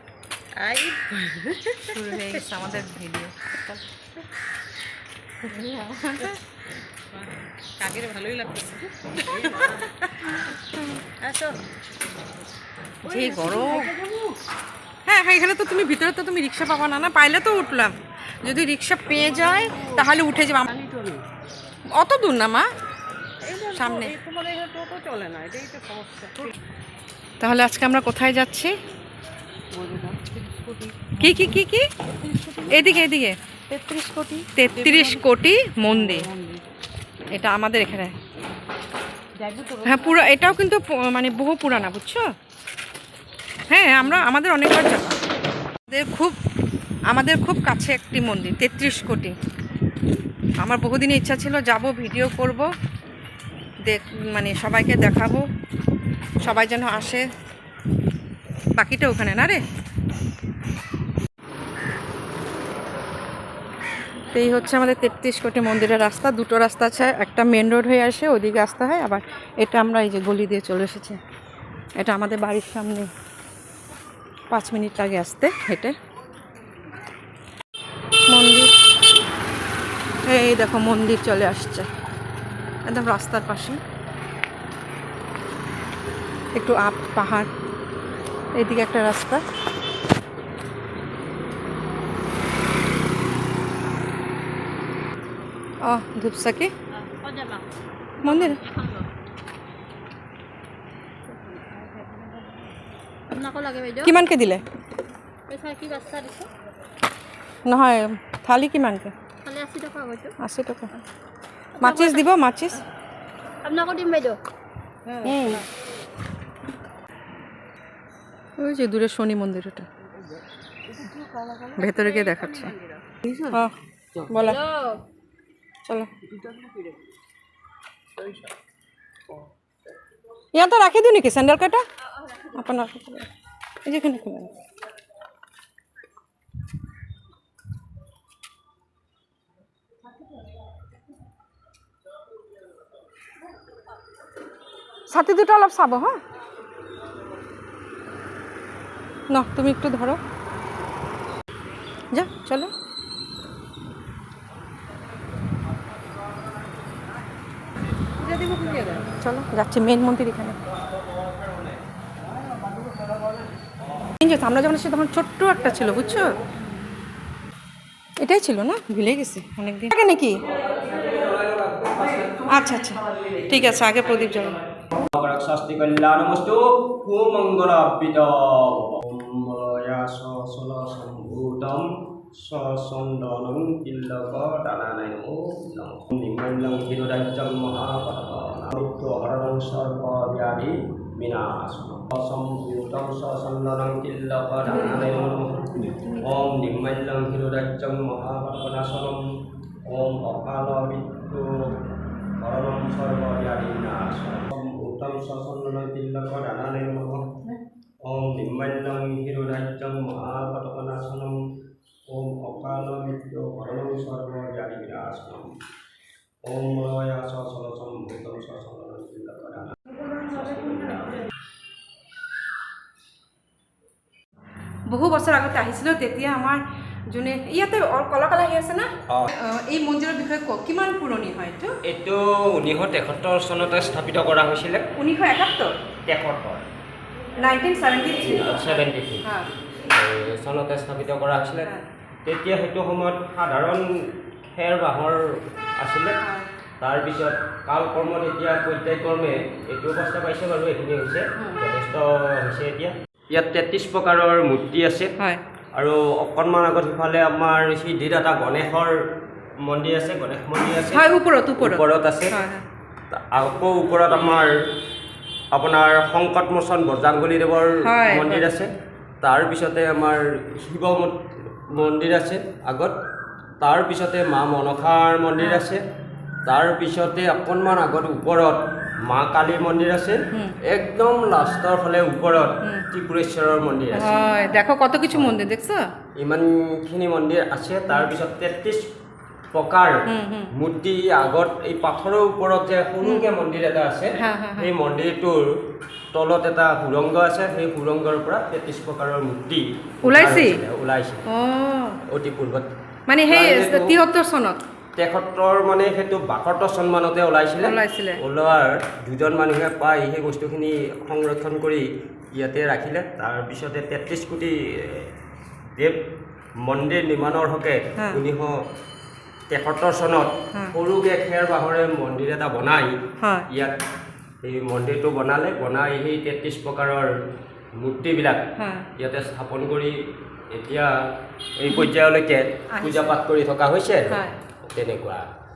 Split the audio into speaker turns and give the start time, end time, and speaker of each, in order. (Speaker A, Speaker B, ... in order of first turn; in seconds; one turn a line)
Speaker A: 0.6-2.4
Speaker B: 1.9-3.4
Speaker A: 3.6-3.8
Speaker B: 5.5-6.4
Speaker A: 7.1-10.0
Speaker B: 9.4-10.1
Speaker A: 11.2-11.8
Speaker A: 13.0-14.4
Speaker B: 13.1-13.9
Speaker B: 15.1-20.7
Speaker A: 19.1-20.1
Speaker A: 20.7-21.2
Speaker B: 22.0-22.7
Speaker A: 23.4-26.4
Speaker B: 23.7-24.1
Speaker B: 27.4-28.8
Speaker A: 29.7-33.1
Speaker B: 31.2-31.9
Speaker B: 32.7-33.4
Speaker A: 33.7-35.3
Speaker B: 34.5-36.3
Speaker A: 35.9-36.6
Speaker B: 37.4-38.2
Speaker A: 39.4-40.5
Speaker B: 39.8-42.3
Speaker B: 43.7-45.2
Speaker A: 44.0-44.3
Speaker B: 45.9-46.4
Speaker B: 47.1-49.4
Speaker B: 50.6-52.7
Speaker B: 53.9-55.5
Speaker B: 56.4-57.3
Speaker B: 58.8-59.6
Speaker B: 64.3-71.2
Speaker B: 72.0-73.1
Speaker B: 74.5-76.0
Speaker B: 78.3-78.7
Speaker B: 80.3-81.9
Speaker B: 82.9-83.8
Speaker B: 86.6-87.5
Speaker B: 88.6-89.4
Speaker B: 95.8-96.7
Speaker C: 96.9-97.7
Speaker C: 98.2-99.1
Speaker B: 98.2-98.6
Speaker A: 101.3-102.7
Speaker C: 103.3-104.2
Speaker B: 104.0-104.6
Speaker C: 105.5-106.5
Speaker B: 107.7-109.1
Speaker C: 109.5-110.3
Speaker B: 110.4-110.9
Speaker C: 111.8-112.3
Speaker B: 111.8-112.8
Speaker C: 113.6-114.4
Speaker A: 115.0-115.7
Speaker B: 115.2-115.6
Speaker B: 118.6-119.9
Speaker A: 120.1-123.6
Speaker B: 121.8-122.7
Speaker B: 123.3-123.7
Speaker B: 124.3-124.6
Speaker C: 124.3-125.0
Speaker A: 126.2-127.0
Speaker A: 128.2-128.5
Speaker B: 130.5-131.8
Speaker B: 132.5-133.3
Speaker B: 133.8-134.5
Speaker B: 145.1-146.2
Speaker B: 149.3-150.2
Speaker B: 152.1-152.7
Speaker B: 158.2-160.6
Speaker D: 161.3-161.8
Speaker D: 163.8-164.1
Speaker B: 164.2-166.4
Speaker B: 168.2-170.4
Speaker D: 170.4-172.5
Speaker B: 172.5-175.0
Speaker D: 175.1-199.2
Speaker B: 194.7-196.5
Speaker D: 199.9-201.8
Speaker D: 202.4-207.3
Speaker D: 208.0-211.4
Speaker D: 212.1-215.5
Speaker D: 216.4-221.3
Speaker B: 224.9-231.8
Speaker D: 231.8-234.9
Speaker B: 234.9-235.7
Speaker D: 236.1-236.7
Speaker B: 237.4-239.5
Speaker D: 238.1-239.3
Speaker D: 239.9-241.7
Speaker D: 242.2-246.2
Speaker B: 246.2-246.5
Speaker D: 246.8-255.2
Speaker B: 251.3-251.6
Speaker D: 255.8-259.0
Speaker D: 259.6-261.1
Speaker B: 260.9-262.6
Speaker D: 261.6-262.3
Speaker D: 263.1-264.5
Speaker D: 265.5-268.7
Speaker B: 267.8-268.5
Speaker D: 269.2-272.9
Speaker D: 273.6-275.8
Speaker D: 276.5-284.3
Speaker B: 283.9-285.9
Speaker D: 285.1-285.4
Speaker D: 286.2-288.9
Speaker D: 289.5-295.6
Speaker B: 290.1-290.5
Speaker B: 293.0-293.3
Speaker B: 294.2-294.7
Speaker D: 296.1-301.2
Speaker B: 300.1-300.6
Speaker B: 301.3-302.0
Speaker D: 302.1-302.7
Speaker B: 303.1-304.6
Speaker D: 303.3-304.0
Speaker D: 305.0-315.1
Speaker B: 307.6-308.2
Speaker D: 316.6-318.6
Speaker B: 318.0-318.2
Speaker D: 319.5-323.0
Speaker B: 323.2-323.5
Speaker D: 324.4-327.1
Speaker D: 327.8-328.4
Speaker B: 328.6-328.9
Speaker D: 329.0-330.0
Speaker D: 330.5-330.9
Speaker D: 331.6-335.3
Speaker B: 332.7-333.1
Speaker B: 334.1-334.3